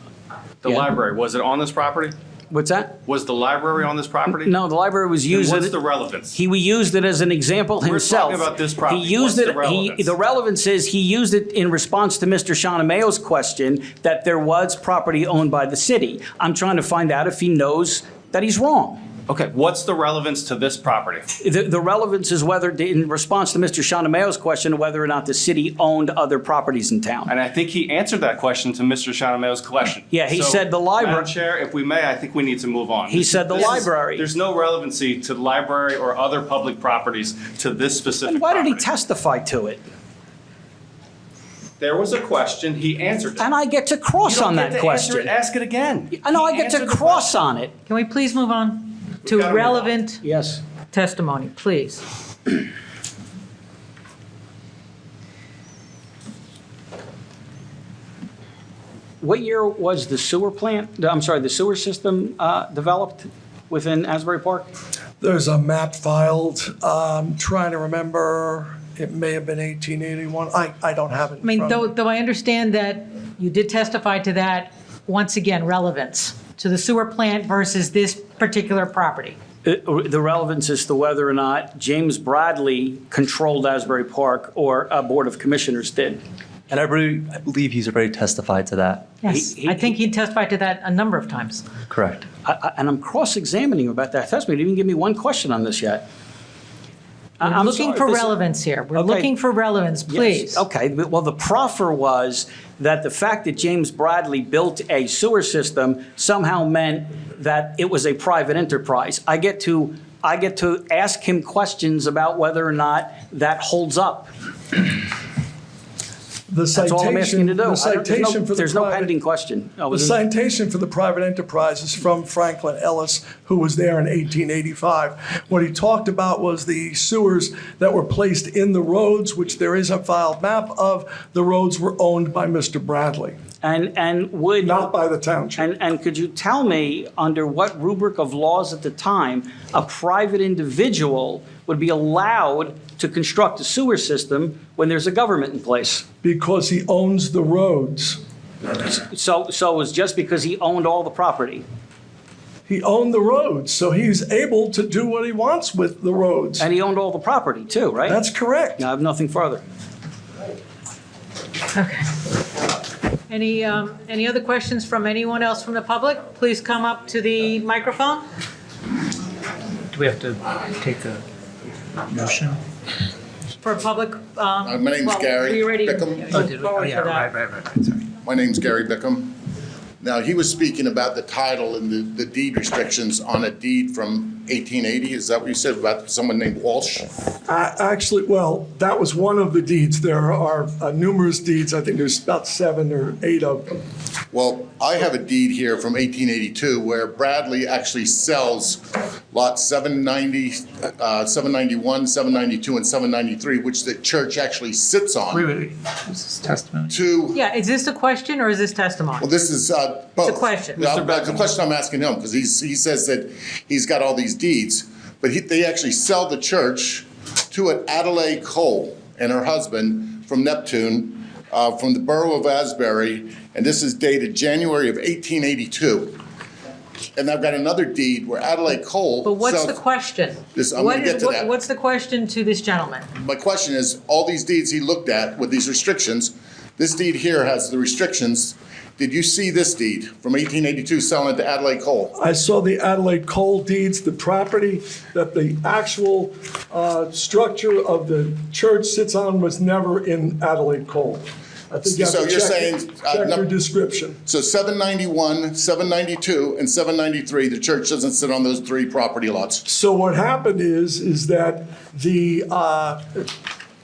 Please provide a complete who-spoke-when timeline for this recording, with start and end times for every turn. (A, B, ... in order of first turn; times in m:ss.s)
0:00.6-0:02.1 A
0:02.5-0:03.0 B
0:03.0-0:04.5 A
0:04.3-0:05.8 B
0:05.3-0:06.4 A
0:06.3-0:19.0 B
0:07.8-0:10.1 A
0:19.3-0:21.3 A
0:21.4-0:27.3 B
0:27.2-0:38.9 A
0:30.1-0:31.3 B
0:33.1-0:34.2 B
0:38.3-0:39.8 B
0:41.8-0:43.5 A
0:43.4-0:45.3 B
0:44.2-0:47.4 A
0:46.2-0:47.7 B
0:47.9-0:50.2 C
0:49.2-0:49.9 A
0:50.2-0:50.6 B
0:50.9-0:52.0 C
0:59.2-1:04.7 B
1:05.2-1:11.9 D
1:11.4-1:19.4 C
1:19.6-1:26.2 B
1:26.7-1:29.1 E
1:29.2-1:31.6 C
1:29.3-1:29.9 B
1:31.9-1:32.2 E
1:32.4-1:36.0 B
1:37.4-1:38.4 B
1:37.4-1:40.6 C
1:38.9-1:39.3 B
1:40.1-1:54.3 B
1:56.5-1:59.1 D
1:56.7-2:00.2 B
1:59.9-2:13.4 D
2:13.6-2:14.8 B
2:14.6-2:15.7 D
2:15.6-2:26.0 B
2:26.2-2:28.2 D
2:28.8-2:31.6 B
2:32.7-2:36.7 D
2:36.6-2:38.2 B
2:38.0-2:38.8 D
2:38.8-2:39.6 B
2:41.7-2:42.0 C
2:43.3-2:48.2 C
2:49.9-2:51.2 F
2:52.1-2:52.6 F
2:53.6-2:57.4 C
2:54.6-2:56.4 G
2:56.4-2:58.0 F
2:58.2-2:59.4 G
3:00.0-3:07.1 G
3:07.5-3:13.8 D
3:14.3-3:25.5 G
3:25.3-3:26.9 F
3:26.9-3:27.4 G
3:27.3-3:29.3 C
3:29.2-3:46.2 G
3:30.2-3:30.9 C
3:30.8-3:31.5 A
3:47.2-3:49.8 G
3:49.2-3:53.1 C
3:50.5-3:51.5 G
3:53.1-4:02.1 G
4:02.2-4:14.2 D
4:11.8-4:13.5 G
4:14.2-4:19.6 G
4:19.6-4:23.3 D